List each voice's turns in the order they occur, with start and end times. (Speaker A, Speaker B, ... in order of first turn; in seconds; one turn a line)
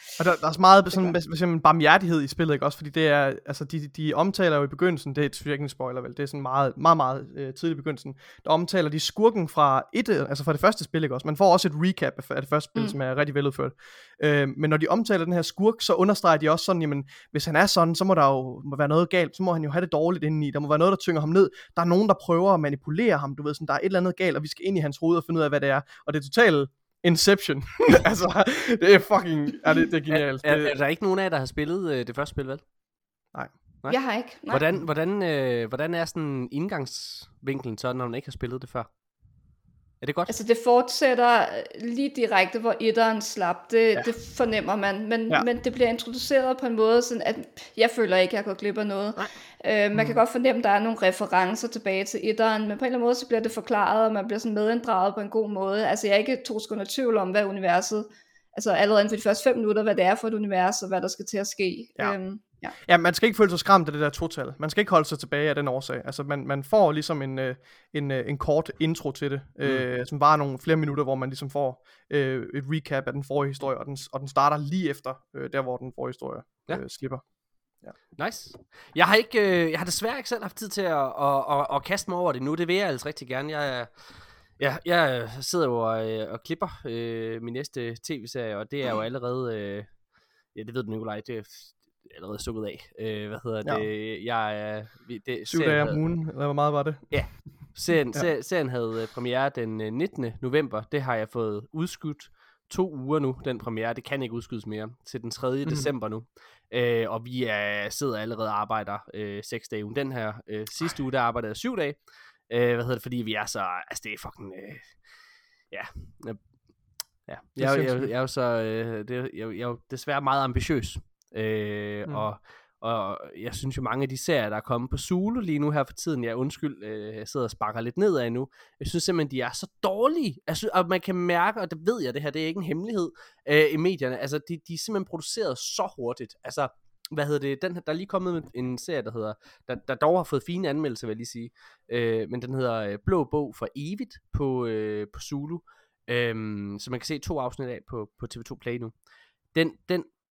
Speaker A: 0.2-30.8
Speaker B: 30.1-32.6
Speaker B: 33.8-38.9
Speaker C: 33.9-34.6
Speaker B: 40.0-40.3
Speaker C: 40.3-62.7
Speaker A: 49.9-50.2
Speaker A: 62.8-77.2
Speaker B: 78.2-83.9
Speaker B: 84.6-89.9
Speaker B: 90.5-96.0
Speaker A: 95.5-97.4
Speaker B: 97.1-112.0
Speaker A: 105.6-105.9
Speaker B: 112.5-115.0
Speaker B: 115.7-116.4
Speaker B: 117.3-148.9
Speaker A: 117.6-118.1
Speaker B: 149.5-150.1